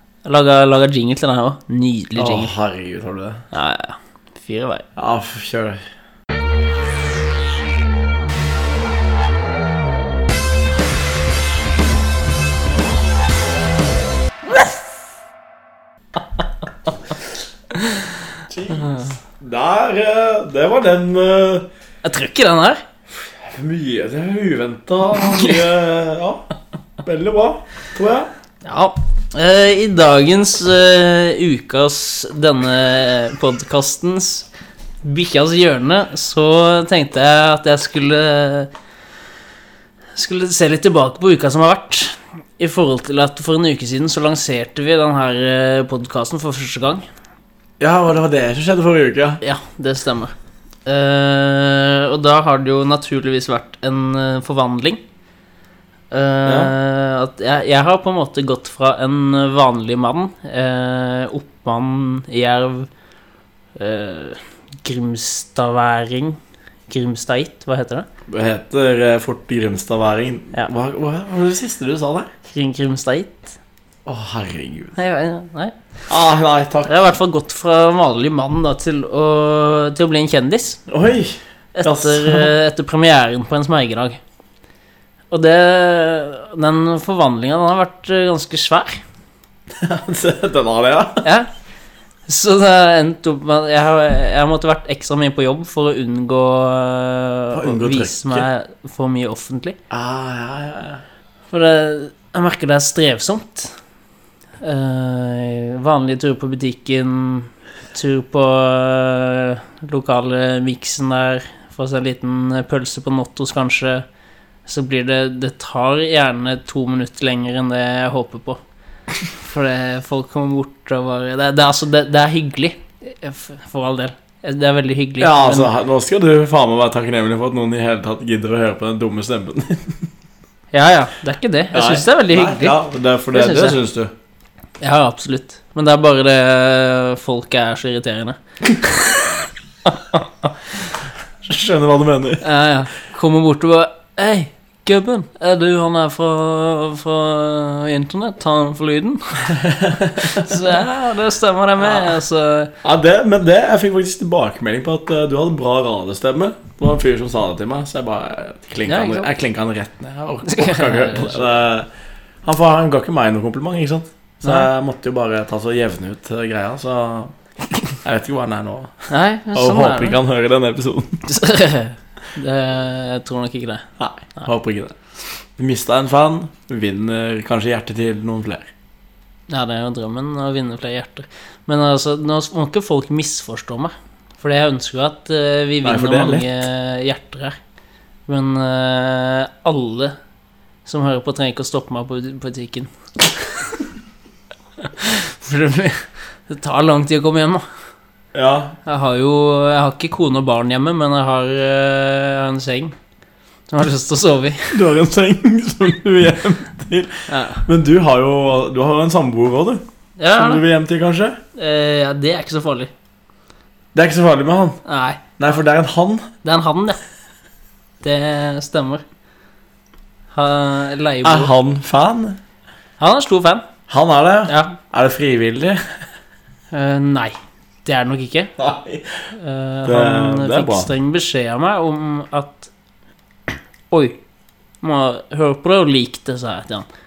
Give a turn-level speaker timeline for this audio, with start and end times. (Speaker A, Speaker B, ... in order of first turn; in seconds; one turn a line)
Speaker A: 0.2-2.5
Speaker B: 2.1-3.4
Speaker A: 3.5-4.8
Speaker B: 5.0-5.8
Speaker B: 18.5-21.7
Speaker A: 22.0-22.8
Speaker B: 23.1-26.4
Speaker A: 25.2-25.6
Speaker B: 27.0-28.3
Speaker A: 28.6-34.5
Speaker A: 35.0-38.7
Speaker A: 40.1-47.0
Speaker B: 47.8-49.4
Speaker A: 49.4-50.3
Speaker A: 50.9-55.0
Speaker A: 56.1-62.9
Speaker B: 56.5-56.7
Speaker A: 63.8-68.1
Speaker B: 68.3-72.3
Speaker A: 72.5-73.6
Speaker B: 74.0-74.9
Speaker A: 75.0-75.7
Speaker B: 76.1-77.0
Speaker A: 76.8-80.8
Speaker B: 80.9-82.5
Speaker A: 81.7-84.2
Speaker A: 85.3-89.0
Speaker B: 89.7-91.2
Speaker A: 91.2-91.5
Speaker A: 92.3-99.8
Speaker B: 97.5-98.5
Speaker B: 99.9-101.0
Speaker A: 101.5-103.8
Speaker A: 104.6-114.0
Speaker A: 114.7-118.6
Speaker A: 119.2-125.7
Speaker B: 125.2-130.1
Speaker A: 130.7-132.8
Speaker B: 131.7-134.1
Speaker A: 133.3-133.8
Speaker A: 134.8-138.4
Speaker A: 139.8-140.5
Speaker B: 141.4-142.4
Speaker A: 142.4-149.6
Speaker B: 149.4-150.8
Speaker A: 150.2-152.7
Speaker B: 151.8-152.2
Speaker B: 152.8-161.9
Speaker A: 158.8-159.3
Speaker A: 160.4-161.6
Speaker B: 162.4-167.3
Speaker A: 164.4-164.7
Speaker B: 167.9-171.2
Speaker A: 169.1-170.2
Speaker A: 171.2-173.8
Speaker B: 174.0-175.0
Speaker B: 175.6-178.7
Speaker A: 179.5-187.6
Speaker B: 185.8-186.5
Speaker A: 188.3-190.2
Speaker A: 190.8-192.9
Speaker A: 194.8-197.6
Speaker B: 198.3-198.8
Speaker A: 198.8-202.9
Speaker A: 203.7-204.8
Speaker B: 204.7-209.8
Speaker A: 207.3-207.7
Speaker A: 210.2-210.6
Speaker B: 210.3-211.4
Speaker A: 211.6-212.9
Speaker B: 213.9-214.8
Speaker A: 214.8-215.2
Speaker B: 215.4-216.3
Speaker A: 216.4-217.0
Speaker A: 218.0-219.0
Speaker A: 220.3-221.5
Speaker B: 221.2-222.4
Speaker A: 223.0-223.7
Speaker B: 223.9-225.8
Speaker A: 224.5-224.8
Speaker A: 226.7-228.5
Speaker B: 228.6-229.2
Speaker A: 229.3-232.7
Speaker B: 229.8-230.9
Speaker A: 233.9-234.2
Speaker A: 234.8-236.9